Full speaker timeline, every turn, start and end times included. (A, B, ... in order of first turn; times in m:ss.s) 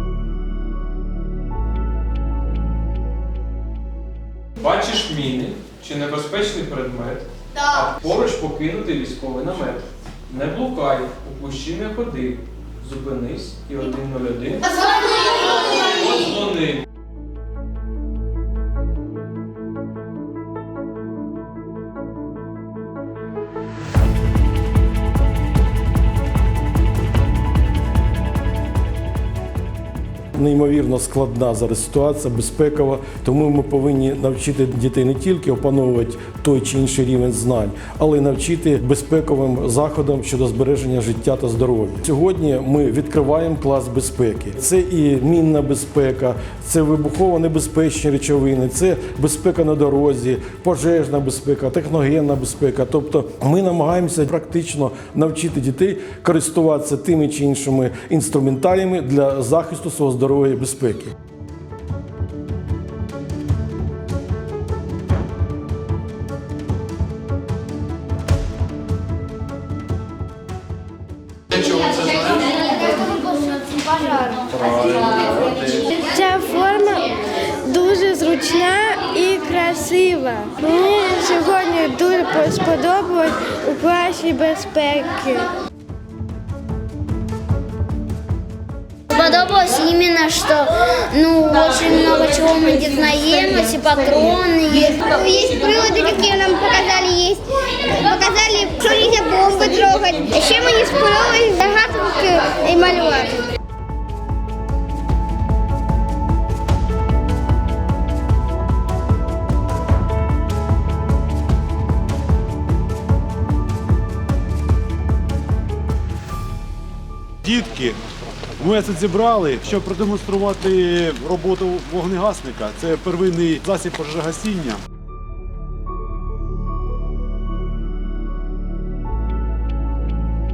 0:04.6-0:14.7 A
0:15.7-0:16.8 A
0:30.4-1:01.1 B
1:11.5-1:12.5 A
1:14.5-1:15.9 A
1:16.0-1:25.5 C
1:29.1-1:35.1 D
1:35.1-1:43.4 E
1:57.4-1:58.0 F
1:58.6-2:04.8 F